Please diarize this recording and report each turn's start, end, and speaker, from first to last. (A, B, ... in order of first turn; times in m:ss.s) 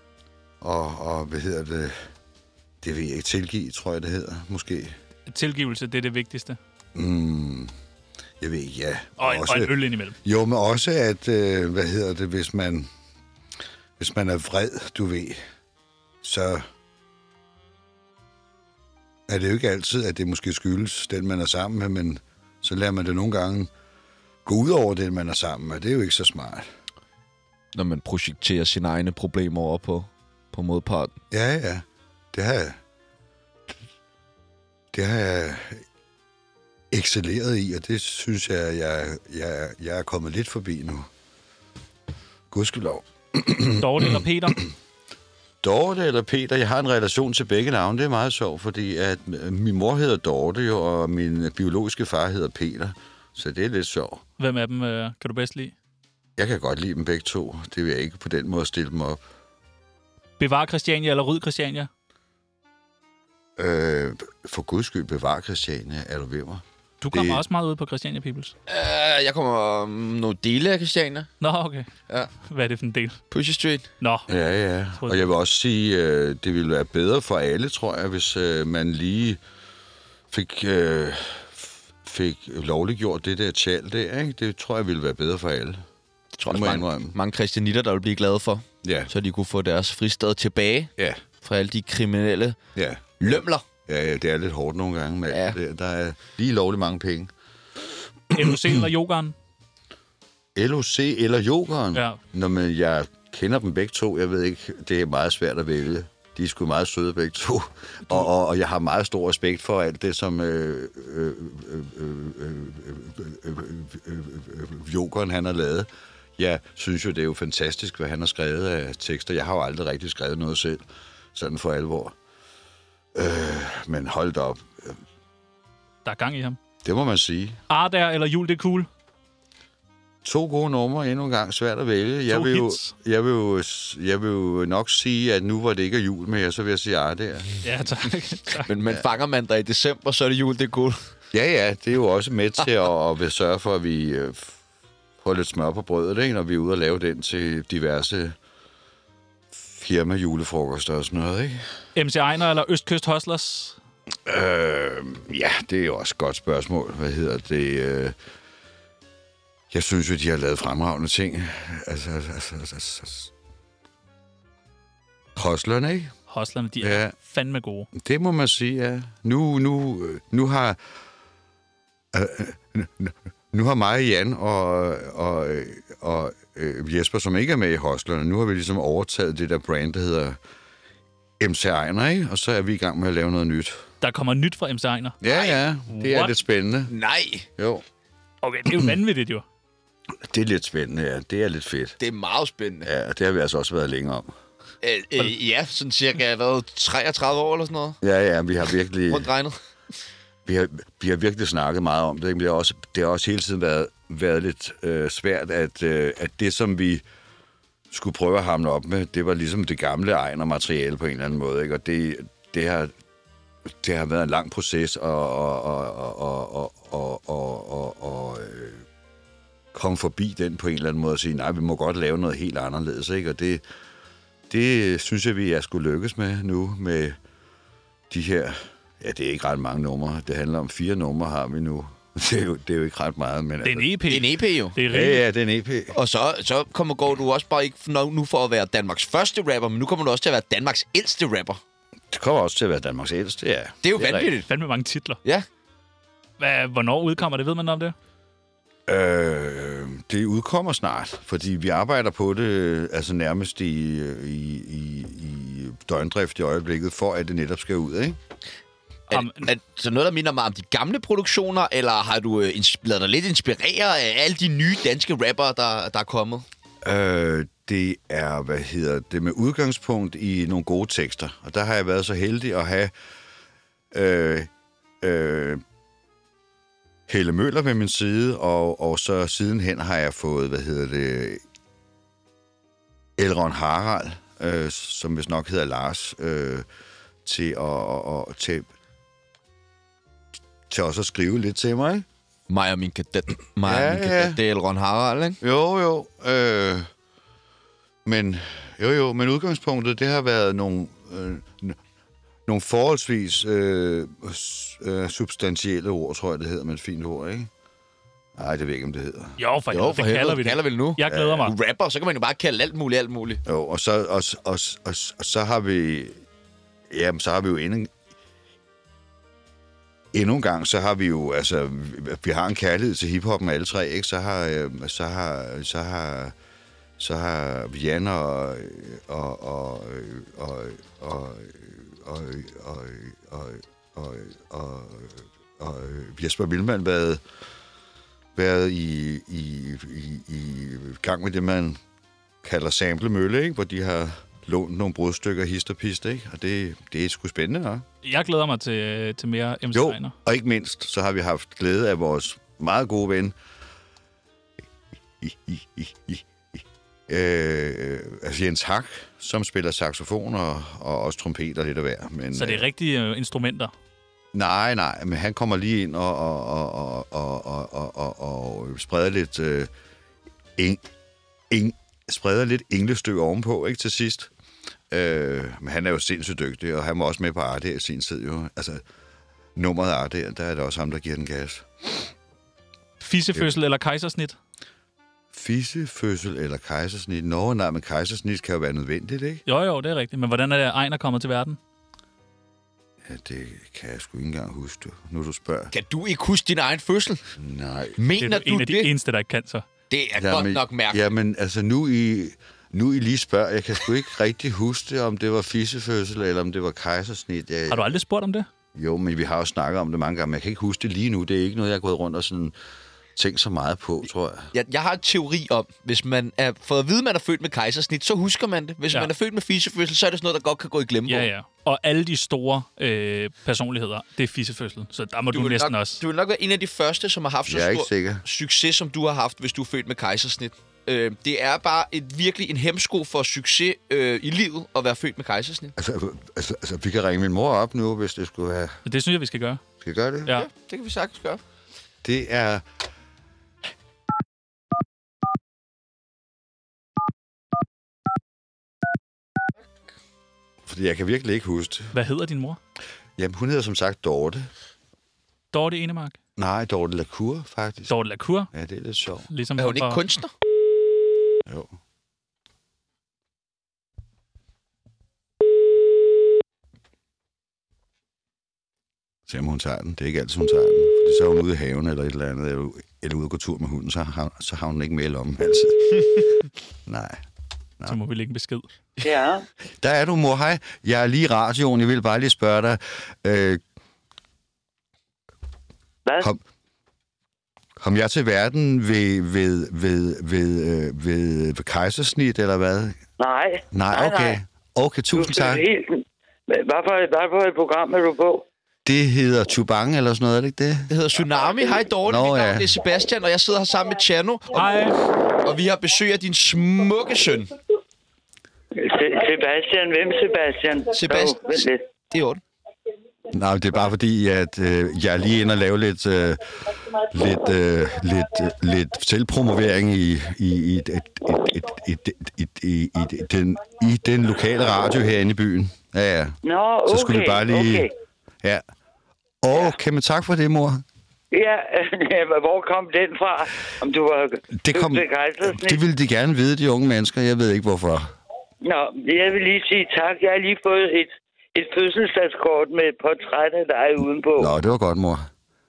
0:00.6-0:02.0 A
0:02.8-0:05.0 A
0:05.3-0:06.6 B
0:07.0-0:07.7 A
0:08.4-0:12.9 A
0:09.2-0:10.2 B
0:14.0-0:15.4 A
0:16.2-0:16.6 A
0:19.3-0:23.7 A
0:24.4-0:26.7 A
0:27.7-0:31.2 C
0:31.3-0:32.8 A
0:34.9-0:35.8 A
0:36.9-0:41.1 A
0:42.5-0:44.6 A
0:43.8-0:44.6 B
0:45.6-0:54.2 A
0:54.4-0:55.7 B
0:56.4-0:59.2 A
1:00.4-1:01.9 B
1:03.6-1:07.4 A
1:07.0-1:08.5 B
1:08.7-1:11.3 C
1:11.4-1:11.9 B
1:12.4-1:13.2 B
1:13.3-1:13.9 C
1:14.0-1:14.3 B
1:14.3-1:19.4 A
1:15.0-1:15.3 B
1:20.3-1:25.8 A
1:26.4-1:32.6 C
1:26.5-1:27.2 A
1:28.8-1:29.1 A
1:31.0-1:31.2 A
1:32.8-1:37.3 A
1:33.2-1:33.7 C
1:35.3-1:35.6 C
1:38.3-1:39.4 B
1:38.3-1:38.8 A
1:40.6-2:00.8 A
2:01.3-2:02.2 A
2:03.2-2:05.0 A
2:06.0-2:06.6 B
2:06.8-2:07.6 A
2:07.7-2:08.9 B
2:10.2-2:17.5 A
2:12.3-2:12.9 B
2:17.6-2:18.7 B
2:18.7-2:21.0 C
2:21.3-2:24.6 A
2:25.2-2:28.4 A
2:29.5-2:31.6 A
2:32.0-2:33.8 B
2:34.3-2:38.2 A
2:39.7-2:43.3 A
2:45.4-2:46.1 A
2:46.3-2:47.9 B
2:46.8-2:47.1 A
2:48.0-2:50.8 A
2:52.1-3:00.4 A
3:01.4-3:03.8 A
3:04.0-3:05.2 B
3:05.2-3:06.9 A
3:05.3-3:05.6 C
3:05.9-3:06.3 B
3:06.9-3:07.5 C
3:07.6-3:07.8 A
3:08.4-3:09.4 B
3:10.3-3:12.0 A
3:12.0-3:12.9 C
3:12.8-3:14.3 A
3:14.8-3:18.0 C
3:18.0-3:19.3 A
3:19.1-3:19.6 C
3:20.5-3:27.0 A
3:27.9-3:32.9 A
3:33.7-3:38.8 A
3:39.7-3:43.6 A
3:44.5-3:47.2 A
3:48.1-3:54.0 A
3:53.6-3:55.2 B
3:54.1-3:54.8 C
3:54.8-3:56.0 A
3:55.9-4:01.6 C
4:02.1-4:04.3 A
4:03.8-4:04.5 C
4:04.5-4:05.2 B
4:06.4-4:08.0 B
4:08.9-4:18.2 A
4:19.1-4:26.4 C
4:19.1-4:19.5 B
4:26.8-4:32.9 A
4:33.9-4:34.5 A
4:35.0-4:35.6 A
4:37.1-4:41.4 A
4:43.2-4:46.6 A
4:47.2-4:48.7 A
4:50.7-4:52.1 A
4:52.5-4:55.4 C
4:53.6-4:54.4 A
4:55.4-4:56.9 A
4:58.0-5:01.8 A
5:02.5-5:07.5 A
5:08.4-5:09.4 A
5:09.4-5:11.5 B
5:09.7-5:13.4 C
5:11.1-5:11.4 A
5:13.4-5:16.2 A
5:16.9-5:17.9 A
5:20.1-5:26.4 A
5:27.0-5:37.2 A
5:38.4-5:41.8 A
5:42.4-5:47.8 A
5:48.0-5:50.2 B
5:49.7-5:53.4 A
5:55.2-5:56.2 A
5:57.1-6:02.6 A
6:02.3-6:03.7 B
6:04.3-6:09.7 A
6:10.6-6:10.8 A
6:11.5-6:14.3 A
6:14.9-6:18.8 A
6:19.6-6:22.0 A
6:23.0-6:24.4 B
6:25.3-6:29.4 A
6:29.5-6:31.6 B
6:33.0-6:35.7 A
6:35.7-6:37.3 C
6:37.4-6:38.0 A
6:38.0-6:38.9 C
6:38.2-6:39.7 B
6:39.9-6:41.1 C
6:40.2-6:47.9 A
6:47.7-6:48.5 B
6:48.8-6:52.5 A
6:53.2-6:54.5 A
6:54.5-7:01.3 C
7:01.1-7:06.0 B
7:05.3-7:15.7 C
7:07.5-7:08.2 A
7:15.8-7:18.8 A
7:18.8-7:19.6 B
7:19.8-7:20.4 A
7:20.3-7:21.4 C
7:22.0-7:22.6 A
7:30.6-7:32.0 A
7:31.9-7:32.6 B
7:33.2-7:34.5 A
7:35.5-7:36.2 B
7:36.4-7:38.0 A
7:37.9-7:38.5 B
7:38.5-7:39.3 A
7:39.3-7:40.0 B
7:39.6-7:40.3 C
7:41.5-7:41.7 A
7:49.3-7:56.2 A
7:56.9-7:57.2 A
7:57.8-7:58.7 B
7:59.0-7:59.5 D
7:59.8-8:03.6 A
8:06.1-8:06.3 D
8:07.8-8:13.0 A
8:13.2-8:14.4 D
8:13.7-8:15.6 A
8:15.1-8:18.4 D
8:18.9-8:20.9 A
8:20.9-8:24.7 C
8:22.0-8:22.8 A
8:24.5-8:25.0 B
8:25.4-8:27.5 C
8:28.8-8:31.8 D
8:30.9-8:32.4 C
8:33.3-8:47.9 A
8:46.4-8:47.9 D
8:49.4-8:50.8 A
8:51.3-8:55.8 D
8:54.6-8:58.1 A
8:58.6-9:04.5 D
9:04.4-9:05.3 A